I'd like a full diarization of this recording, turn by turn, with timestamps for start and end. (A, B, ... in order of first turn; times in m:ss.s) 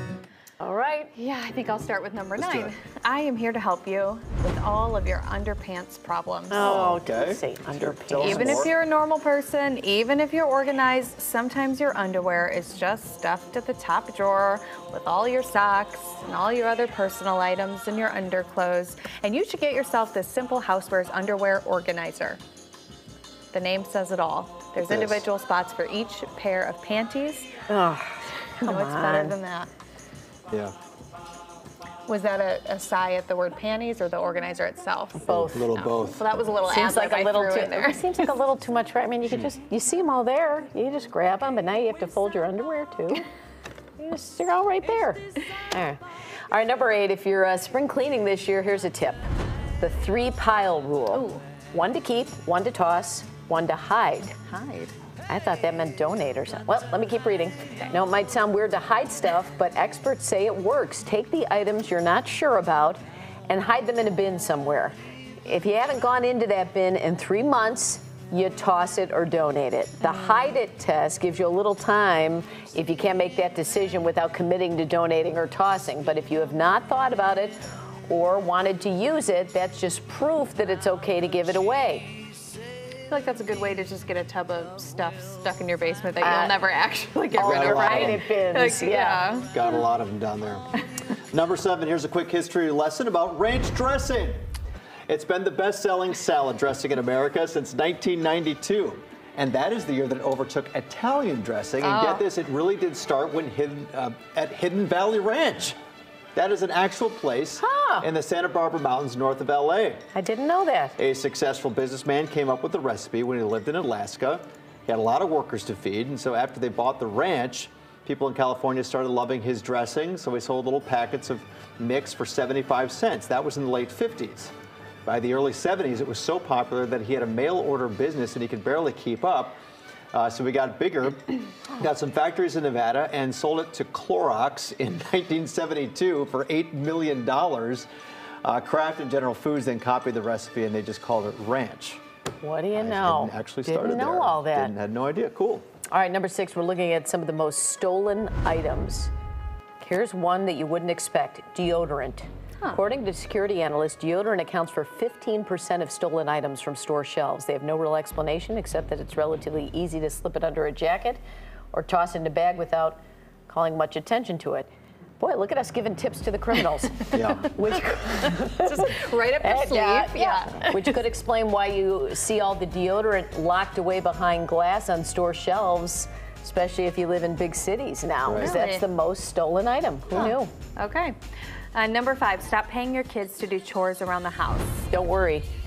0:00.6-0:01.1 A
0:01.1-0:06.8 B
0:02.4-0:02.7 C
0:06.5-0:08.7 A
0:06.6-0:08.7 C
0:08.2-0:22.4 B
0:23.5-0:27.5 B
0:24.8-0:25.2 C
0:27.7-0:29.4 A
0:28.6-0:29.7 B
0:30.5-0:30.8 C
0:32.1-0:38.3 B
0:35.2-0:35.6 A
0:35.3-0:36.2 C
0:36.7-0:43.2 A
0:44.0-0:46.0 A
0:46.5-0:49.2 A
0:49.8-0:54.4 A
0:51.1-0:51.4 B
0:54.5-0:54.9 B
0:55.3-1:22.2 A
1:10.2-1:10.5 B
1:23.1-1:29.9 B
1:26.2-1:26.6 A
1:27.3-1:29.3 A
1:27.4-1:28.2 C
1:29.5-1:30.7 C
1:31.3-1:34.4 C
1:35.1-1:45.8 C
1:41.8-1:42.3 B
1:46.4-1:50.1 C
1:47.6-1:48.1 A
1:50.1-1:51.0 A
1:51.0-2:04.5 C
2:05.0-2:09.6 C
2:10.1-2:17.9 C
2:18.4-2:22.0 C
2:22.4-2:24.8 A
2:22.7-2:25.7 C
2:25.9-2:29.1 A
2:29.8-2:41.2 A
2:41.7-2:44.7 A
2:45.2-2:48.8 A
2:47.1-2:47.5 C
2:48.5-2:51.0 B
2:49.4-3:00.5 A
2:58.2-2:58.5 C
2:58.4-2:58.8 B
3:00.1-3:01.2 B
3:01.7-3:04.9 B
3:04.9-3:05.5 A